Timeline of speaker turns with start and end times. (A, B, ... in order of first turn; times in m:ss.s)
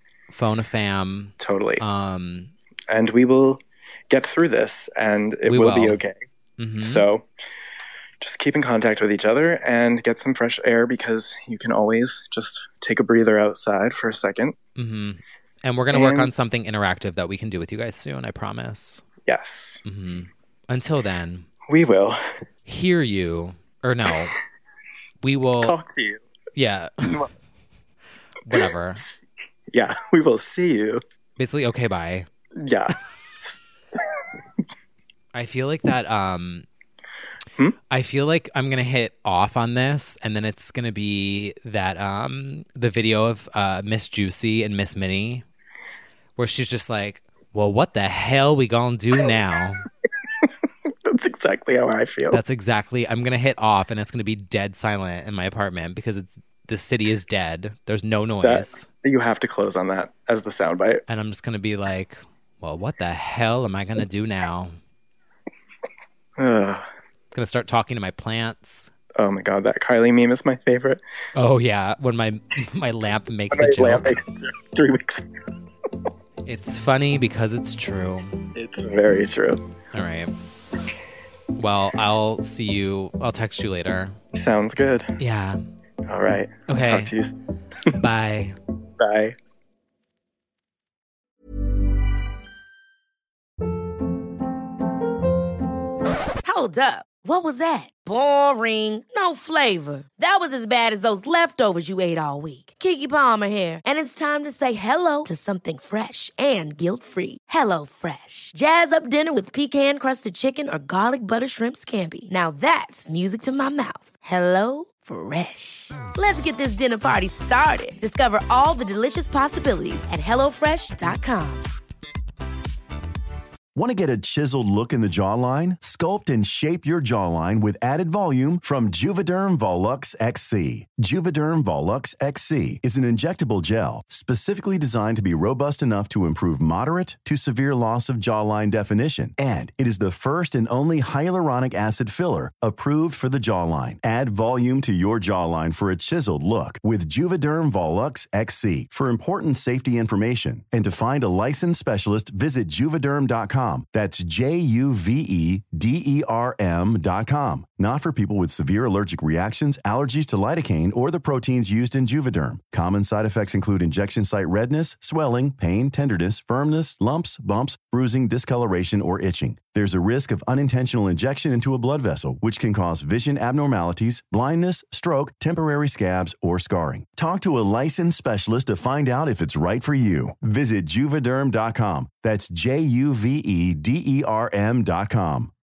0:00.3-0:02.5 A
0:01.4-0:01.8 B
0:02.9-0:06.2 B
0:05.5-0:06.0 A
0:06.6-0:07.1 A
0:06.8-0:07.3 B
0:08.2-0:14.6 B
0:14.8-0:19.0 A
0:15.9-0:16.3 B
0:19.3-0:19.8 B
0:19.8-0:21.5 A
0:21.7-0:22.2 B
0:22.7-0:24.3 A
0:25.2-0:25.8 A
0:25.6-0:26.2 B
0:26.6-0:27.2 A
0:28.5-0:29.0 A
0:28.9-0:31.0 B
0:31.4-0:32.3 A
0:32.6-0:34.2 B
0:35.3-0:36.7 A
0:37.9-0:45.4 A
0:46.4-0:49.8 A
0:51.1-0:52.4 B
0:52.3-0:58.9 A
0:58.4-1:01.0 B
1:01.1-1:04.8 A
1:06.4-1:06.9 B
1:07.3-1:08.9 A
1:09.2-1:11.0 B
1:11.4-1:14.2 A
1:13.5-1:15.3 B
1:16.5-1:18.4 A
1:18.6-1:19.6 B
1:19.9-1:20.3 A
1:21.6-1:24.2 A
1:24.3-1:25.1 B
1:25.2-1:25.6 A
1:26.1-1:27.4 B
1:26.7-1:27.2 A
1:28.0-1:28.6 A
1:29.0-1:29.4 B
1:36.4-2:01.7 C
2:03.8-3:05.5 D